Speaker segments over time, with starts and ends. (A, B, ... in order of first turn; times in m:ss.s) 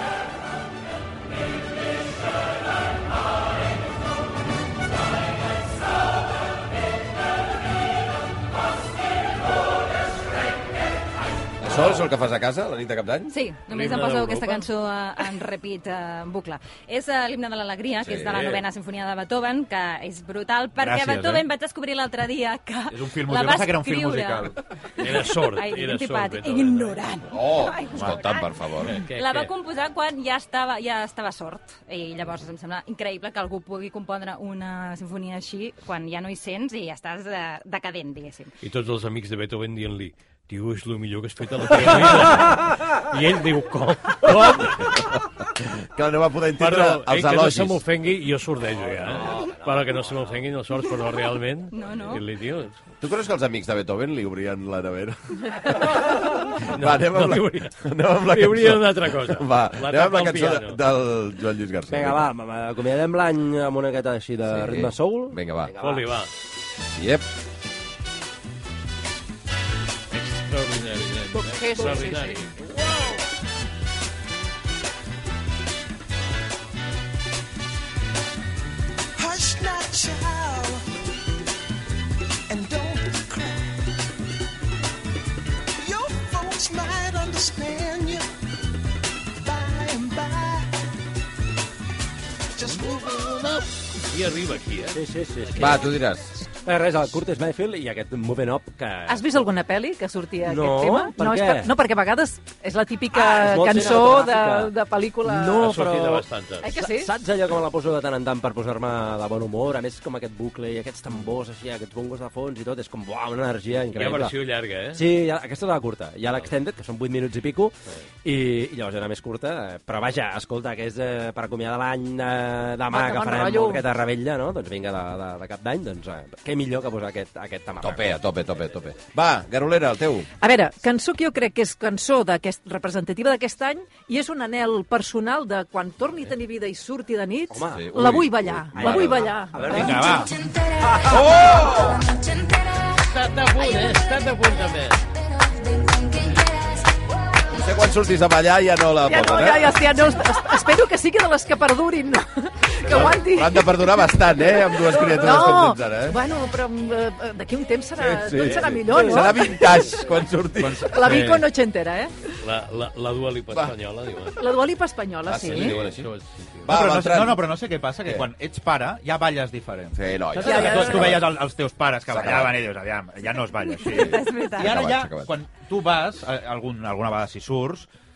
0:11.6-0:13.3 A
0:13.3-0:38.5 B
0:13.7-0:14.7 C
0:18.0-0:18.6 A
0:20.8-0:21.5 D
0:22.9-0:24.6 D
0:25.0-0:27.1 C
0:27.3-0:29.0 A
0:28.9-0:29.5 C
0:38.6-0:45.1 C
0:45.8-0:47.8 A
0:46.6-0:52.8 C
0:49.0-0:50.4 E
0:51.7-0:52.2 B
0:53.0-0:56.0 A
0:56.6-1:00.8 C
0:56.6-1:02.2 A
1:01.9-1:06.1 E
1:04.5-1:05.7 A
1:05.8-1:06.3 C
1:06.9-1:07.3 A
1:10.1-1:12.6 C
1:11.3-1:12.4 F
1:19.2-1:21.0 G
1:22.5-1:24.2 G
1:25.8-1:28.3 G
1:29.4-1:30.9 G
1:32.5-1:33.7 G
1:34.0-1:35.0 C
1:34.9-1:36.0 E
1:35.6-1:36.4 A
1:36.5-1:39.3 E
1:39.1-1:45.6 F
1:40.4-1:41.7 E
1:43.1-1:44.7 E
1:45.2-1:54.4 E
1:45.6-1:46.8 C
1:46.6-1:47.1 F
1:53.9-1:55.1 C
1:54.9-2:08.6 E
2:02.9-2:03.8 F
2:07.8-2:10.3 A
2:10.4-2:20.2 F
2:17.5-2:17.9 E
2:17.7-2:19.4 A
2:18.7-2:20.3 E
2:19.7-2:20.4 D
2:20.9-2:21.2 E
2:21.0-2:22.1 A
2:22.9-2:25.0 C
2:27.5-2:29.8 A
2:29.1-2:33.9 F
2:32.8-2:36.2 A
2:34.8-2:39.8 F
2:38.0-2:41.4 A
2:38.9-2:39.3 E
2:40.6-2:41.5 D
2:40.9-2:42.4 F
2:42.4-2:44.6 C
2:44.4-2:45.8 F
2:45.3-2:46.1 A
2:45.3-2:46.8 C
2:46.6-2:47.4 A
2:46.7-2:57.9 D
2:50.0-2:51.3 A
2:50.4-2:51.3 F
2:52.1-2:52.6 A
2:53.8-2:54.8 B
2:53.9-2:55.3 A